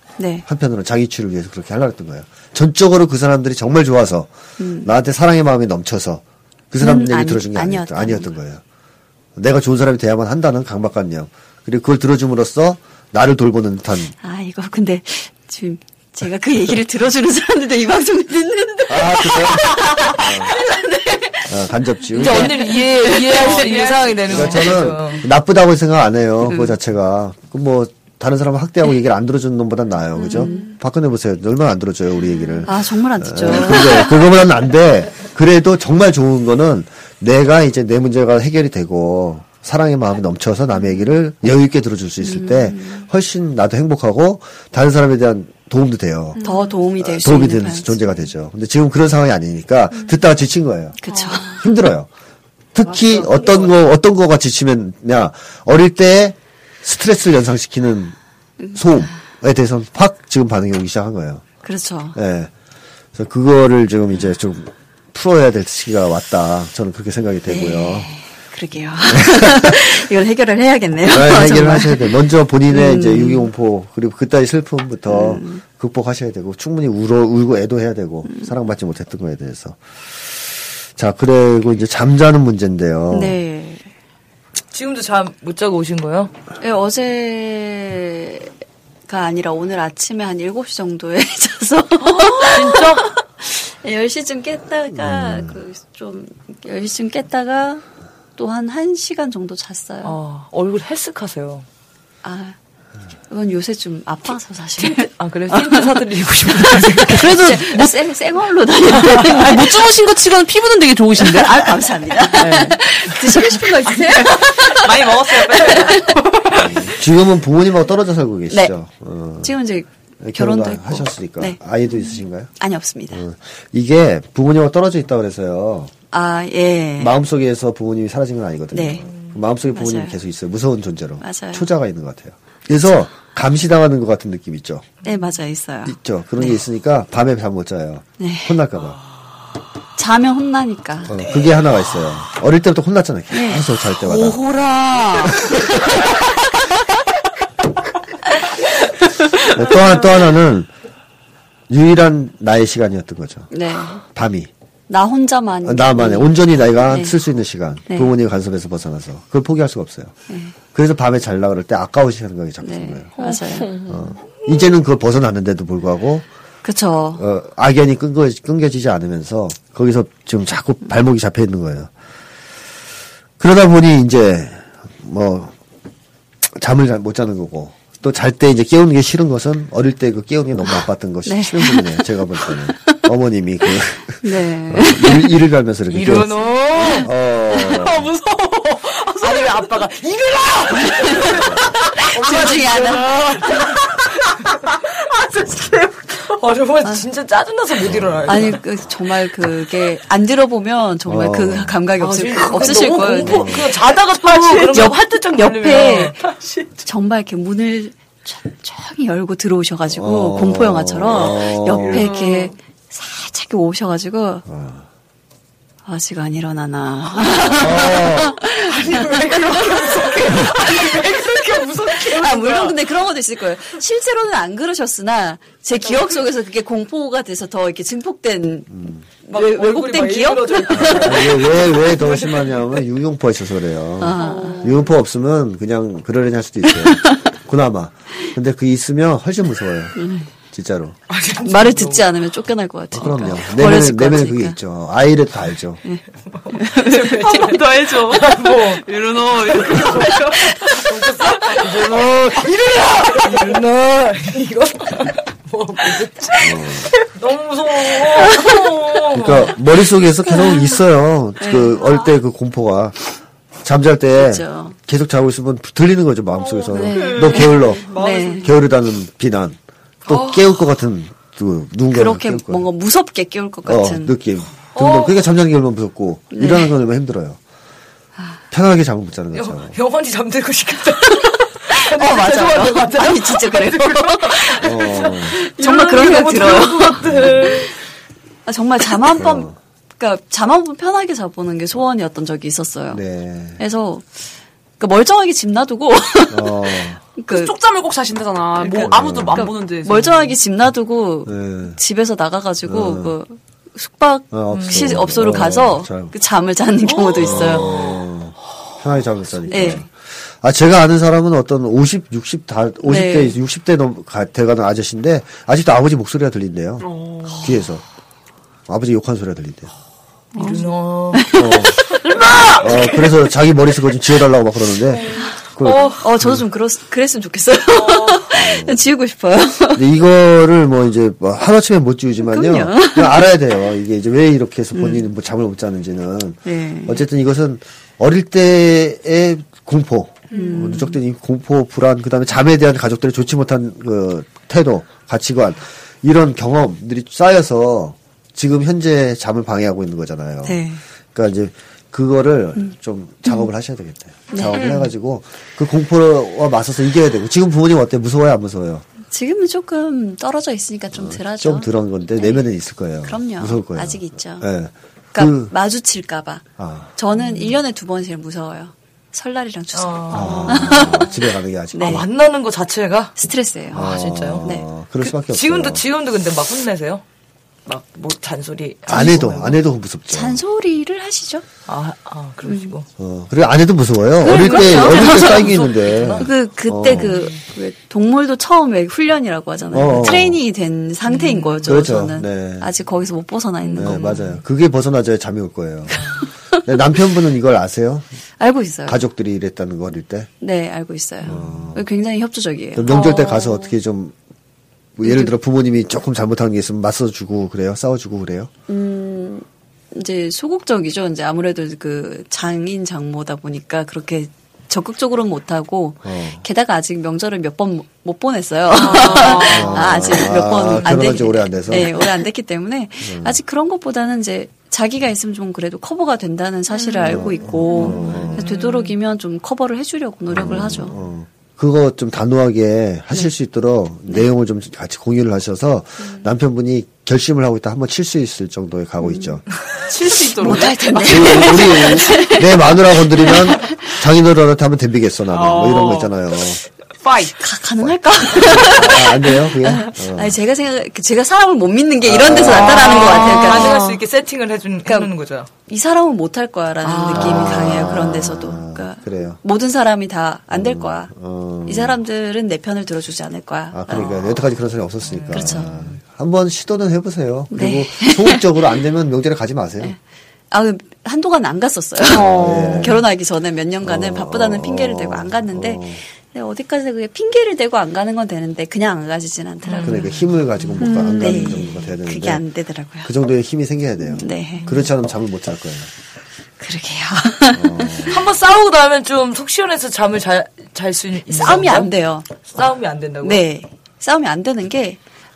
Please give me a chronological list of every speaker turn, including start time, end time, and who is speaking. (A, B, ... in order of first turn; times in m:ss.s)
0:00.2-0:00.4 A
0:00.4-0:04.3 B
0:04.6-0:04.9 A
0:04.8-0:08.6 B
0:06.8-0:08.3 A
0:09.4-0:14.1 B
0:14.2-0:21.5 A
0:18.9-0:20.5 B
0:21.4-0:22.6 B
0:22.1-0:25.2 C
0:22.3-0:23.9 A
0:23.1-0:24.2 D
0:24.2-0:46.4 B
0:26.5-0:26.8 A
0:30.2-0:30.6 A
0:30.3-0:30.7 D
0:32.6-0:34.2 A
0:42.2-0:43.0 A
0:46.4-0:48.1 A
0:47.0-0:52.1 B
0:51.0-0:51.6 A
0:52.7-0:58.2 B
0:58.7-1:01.4 B
1:01.6-1:02.2 A
1:02.1-1:02.5 B
1:03.1-1:08.1 B
1:07.5-1:12.2 A
1:09.1-1:09.8 B
1:11.0-1:23.4 B
1:12.7-1:13.5 A
1:15.1-1:15.6 A
1:23.1-1:23.9 A
1:24.7-1:26.3 C
1:26.6-1:28.5 A
1:29.1-1:37.8 A
1:32.0-1:33.1 C
1:35.0-1:35.6 B
1:38.4-1:40.2 A
1:40.0-1:41.6 C
1:42.2-1:42.5 A
1:43.3-1:45.9 A
1:44.8-1:47.6 C
1:46.7-1:49.8 A
1:47.2-1:47.9 D
1:48.9-1:51.8 D
1:51.2-1:56.1 A
1:52.4-1:52.7 D
1:52.4-1:52.8 C
1:53.4-1:56.8 D
1:56.5-1:59.5 B
1:59.4-2:01.6 A
2:00.2-2:02.5 B
2:02.6-2:03.2 A
2:03.1-2:05.9 B
2:06.1-2:07.1 A
2:07.0-2:14.9 B
2:08.7-2:09.0 A
2:09.7-2:10.2 A
2:11.2-2:11.7 A
2:15.0-2:16.6 A
2:15.8-2:19.0 B
2:18.2-2:18.6 A
2:20.0-2:21.2 A
2:21.1-2:24.4 B
2:23.3-2:23.6 A
2:24.0-2:25.4 D
2:25.2-2:25.6 B
2:29.4-2:30.7 B
2:31.7-2:33.5 B
2:33.5-2:34.0 A
2:34.0-2:34.5 B
2:34.9-2:37.1 A
2:35.6-2:40.1 B
2:40.3-2:40.5 A
2:40.7-2:43.1 B
2:42.6-2:43.8 A
2:43.2-2:43.9 D
2:43.8-2:46.2 B
2:46.6-2:47.2 A
2:47.2-2:51.9 B
2:53.4-2:55.5 B
2:56.4-3:08.1 B
3:01.2-3:03.0 A
3:04.2-3:05.3 A
3:05.9-3:07.1 C
3:07.6-3:09.8 D
3:09.2-3:14.7 C
3:10.9-3:11.3 A
3:10.9-3:14.1 D
3:12.1-3:13.1 A
3:15.1-3:16.2 D
3:16.2-3:18.6 C
3:17.8-3:18.4 B
3:18.3-3:26.2 A
3:21.0-3:21.8 B
3:22.0-3:26.7 C
3:23.2-3:23.7 B
3:26.8-3:34.4 A
3:29.9-3:32.1 B
3:31.9-3:32.5 D
3:34.5-3:34.8 B
3:35.8-3:51.3 A
3:37.6-3:38.4 B
3:38.6-3:42.8 C
3:45.9-3:46.2 C
3:48.7-3:49.0 B
3:49.3-3:52.8 C
3:50.7-4:00.0 B
3:54.0-3:54.7 A
3:54.2-3:54.8 D
3:56.9-3:57.2 A
4:00.0-4:00.3 A
4:00.5-4:01.0 B
4:01.1-4:02.0 C
4:01.4-4:04.6 A
4:02.9-4:05.8 B
4:05.8-4:07.5 A
4:06.3-4:19.6 C
4:07.0-4:11.6 D
4:11.8-4:12.4 B
4:12.7-4:13.6 D
4:16.4-4:16.9 B
4:19.1-4:23.0 B
4:21.4-4:21.8 A
4:23.6-4:32.6 B
4:24.2-4:24.8 A
4:26.3-4:28.7 D
4:26.7-4:28.5 A
4:31.9-4:34.1 A
4:33.6-4:37.4 B
4:34.7-4:35.3 C
4:36.3-4:36.7 A
4:38.5-4:39.8 B
4:39.3-4:47.7 C
4:41.7-4:44.7 A
4:44.6-4:45.4 B
4:45.4-4:47.7 A
4:47.0-4:47.6 B
4:48.5-4:53.0 A
4:49.0-4:49.6 B
4:52.9-4:53.6 B
4:53.6-4:54.2 A
4:54.8-4:57.6 A
4:56.3-4:57.0 B
4:57.3-5:00.4 D
4:58.6-4:58.9 C
4:58.8-4:59.5 B
4:59.3-5:07.7 A
5:01.2-5:01.8 B
5:02.6-5:03.1 B
5:04.3-5:06.1 B
5:04.5-5:05.0 C
5:06.9-5:07.8 D
5:07.2-5:16.9 B
5:09.5-5:09.8 A
5:12.8-5:13.4 A
5:16.8-5:17.5 D
5:17.4-5:17.8 B
5:18.7-5:19.7 B
5:20.3-5:21.3 C
5:20.3-5:22.0 A
5:21.4-5:21.8 B
5:22.2-5:22.6 C
5:22.4-5:26.4 B
5:25.7-5:26.0 D
5:26.0-5:29.8 A
5:27.8-5:28.1 D
5:28.3-5:28.9 B
5:29.7-5:58.8 B
5:32.2-5:33.2 A
5:34.7-5:35.0 A
5:36.4-5:37.0 A
5:40.3-5:41.0 A
5:50.4-5:50.8 A
5:54.3-5:54.7 A
5:59.1-6:02.4 A
6:00.9-6:05.5 B
6:03.0-6:04.5 A
6:05.1-6:06.4 A
6:06.6-6:06.9 B
6:07.0-6:11.1 A
6:09.7-6:11.0 C
6:10.1-6:12.0 B
6:11.7-6:12.0 A
6:11.8-6:13.1 C
6:13.2-6:14.6 A
6:13.7-6:17.0 C
6:13.7-6:15.8 B
6:17.6-6:19.6 C
6:18.9-6:20.4 B
6:18.9-6:19.4 A
6:20.1-6:21.4 A
6:21.7-6:22.8 C
6:22.4-6:22.7 A
6:23.0-6:27.2 B
6:24.2-6:25.5 A
6:24.3-6:26.3 C
6:26.2-6:34.2 A
6:29.7-6:30.4 B
6:31.1-6:31.7 C
6:31.6-6:32.7 B
6:33.7-6:34.4 C
6:33.7-6:36.1 B
6:36.6-6:38.0 B
6:38.4-6:39.0 A
6:38.9-6:40.3 B
6:40.4-6:43.6 A
6:41.2-6:41.8 B
6:42.7-6:44.1 B
6:45.0-6:48.5 B
6:45.0-6:45.3 A
6:48.7-7:10.9 A
6:56.0-6:56.4 B
6:58.8-6:59.7 D
6:58.8-6:59.9 C
6:59.4-7:02.0 B
7:00.8-7:01.0 C
7:03.0-7:03.4 B
7:07.0-7:08.4 B
7:07.1-7:08.9 C
7:10.3-7:19.4 B
7:19.0-7:19.4 A
7:19.8-7:21.7 D
7:20.4-7:23.9 A
7:21.0-7:26.6 B
7:25.3-7:26.2 D
7:27.0-7:27.4 D
7:27.4-7:33.8 A
7:27.8-7:30.4 B
7:32.0-7:33.3 B
7:32.4-7:34.0 D
7:32.7-7:35.5 C
7:34.8-7:35.1 A
7:35.7-7:41.1 A
7:36.8-7:37.6 D
7:37.1-7:39.4 B
7:40.5-7:42.0 B
7:41.6-7:44.1 A
7:43.7-7:50.0 B
7:43.9-7:44.3 C
7:45.0-7:46.0 C
7:45.3-7:45.7 A
7:47.5-7:48.4 A
7:50.5-8:00.2 A
7:52.1-7:52.9 D
7:52.1-7:53.0 B
7:53.8-7:56.0 B
7:59.6-8:00.8 C
7:59.8-8:02.4 B
8:00.8-8:01.7 D
8:01.1-8:03.1 A
8:03.0-8:05.9 B
8:04.0-8:04.7 A
8:06.6-8:08.1 A
8:07.5-8:08.3 B
8:08.0-8:13.4 C
8:11.3-8:12.3 A
8:13.2-8:15.0 A